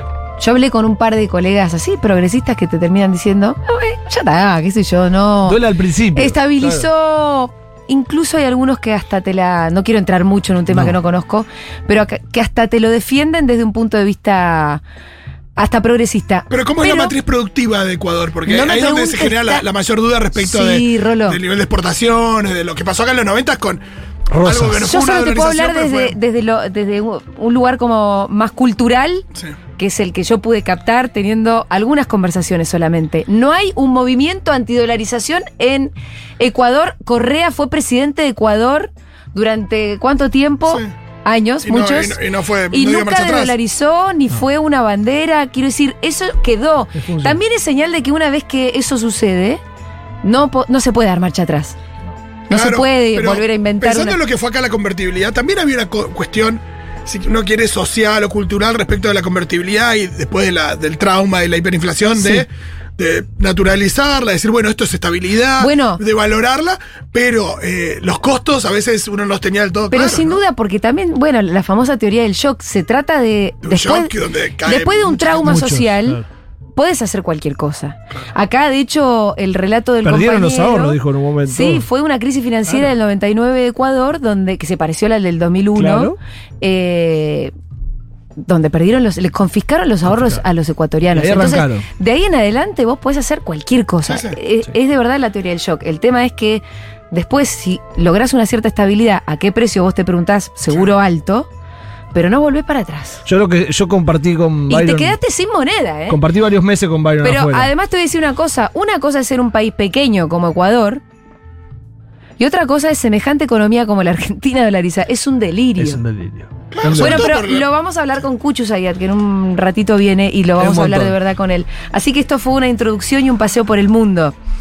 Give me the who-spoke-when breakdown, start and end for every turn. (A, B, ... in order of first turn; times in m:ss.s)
0:00.4-0:05.6 A
0:05.4-0:06.9 B
0:06.1-0:14.8 A
0:10.7-0:11.0 B
0:15.6-0:17.1 A
0:16.5-0:23.8 C
0:18.5-0:19.6 A
0:20.4-0:21.4 A
0:24.3-0:24.9 B
0:24.4-0:26.2 C
0:24.7-0:42.2 A
0:41.6-0:43.6 C
0:42.7-0:49.6 A
0:47.0-0:47.4 B
0:50.2-0:51.8 A
0:52.5-0:54.2 A
0:52.5-1:10.4 C
1:02.2-1:02.5 A
1:05.6-1:06.0 A
1:09.9-1:16.2 A
1:13.6-1:15.6 C
1:15.4-1:16.2 B
1:16.8-1:27.5 A
1:20.0-1:21.8 B
1:25.8-1:26.2 B
1:28.4-1:41.5 A
1:30.1-1:30.4 B
1:31.1-1:31.9 B
1:34.1-1:34.4 C
1:42.1-1:43.2 A
1:43.2-1:45.2 B
1:44.7-1:46.2 A
1:46.1-1:47.7 B
1:47.2-1:51.0 A
1:52.4-1:56.0 A
1:55.8-1:57.4 B
1:56.7-1:57.7 C
1:56.8-2:04.3 A
2:00.6-2:01.2 B